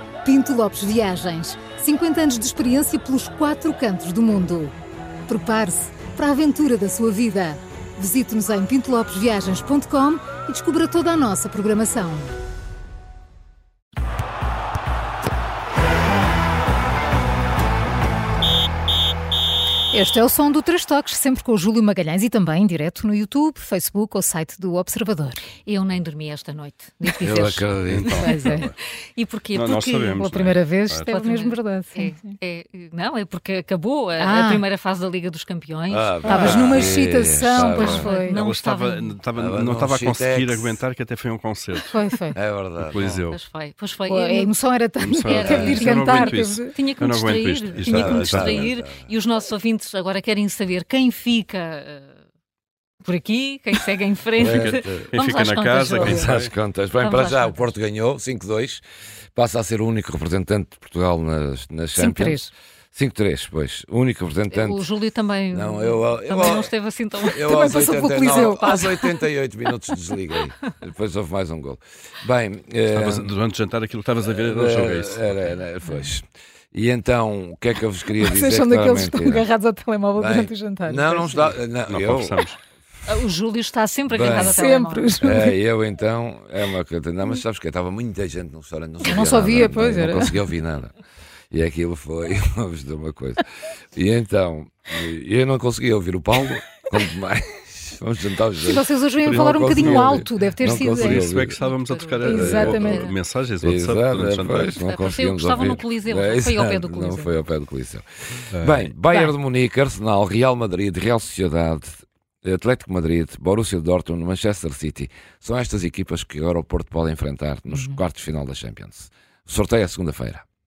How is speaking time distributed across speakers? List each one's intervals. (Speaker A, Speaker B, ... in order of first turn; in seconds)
Speaker A: 0.2-4.7, 5.3-12.3, 19.9-25.4, 28.2-28.7, 29.7-32.3, 34.2-34.6, 36.3-38.4, 41.9-42.4, 44.1-46.7, 62.0-62.5, 67.4-69.0, 78.2-81.6, 84.3-85.5, 89.0-90.3, 98.6-101.2, 102.2-103.0, 117.7-118.0
Speaker B: 25.6-30.0, 31.1-36.9, 37.6-39.2, 43.3-44.5, 45.2-52.1, 53.0-56.3, 57.0-57.7, 64.5-67.5, 83.1-85.2, 101.6-103.2, 104.7-107.3
Speaker C: 27.2-28.2, 35.9-38.1, 39.4-40.8, 42.3-43.2, 47.8-49.1, 54.4-55.1, 56.0-58.8, 59.3-64.8, 65.5-66.7, 67.3-73.3, 74.3-79.5, 80.2-82.4, 84.1-84.6, 85.2-90.9, 91.5-93.4, 93.9-101.6, 102.3-102.9, 103.6-120.4
Speaker D: 27.9-28.7, 29.5-31.1, 37.7-41.9, 42.8-43.4, 45.0-48.7, 54.4-56.5, 72.9-75.5, 81.9-82.6, 99.2-104.8, 108.5-108.9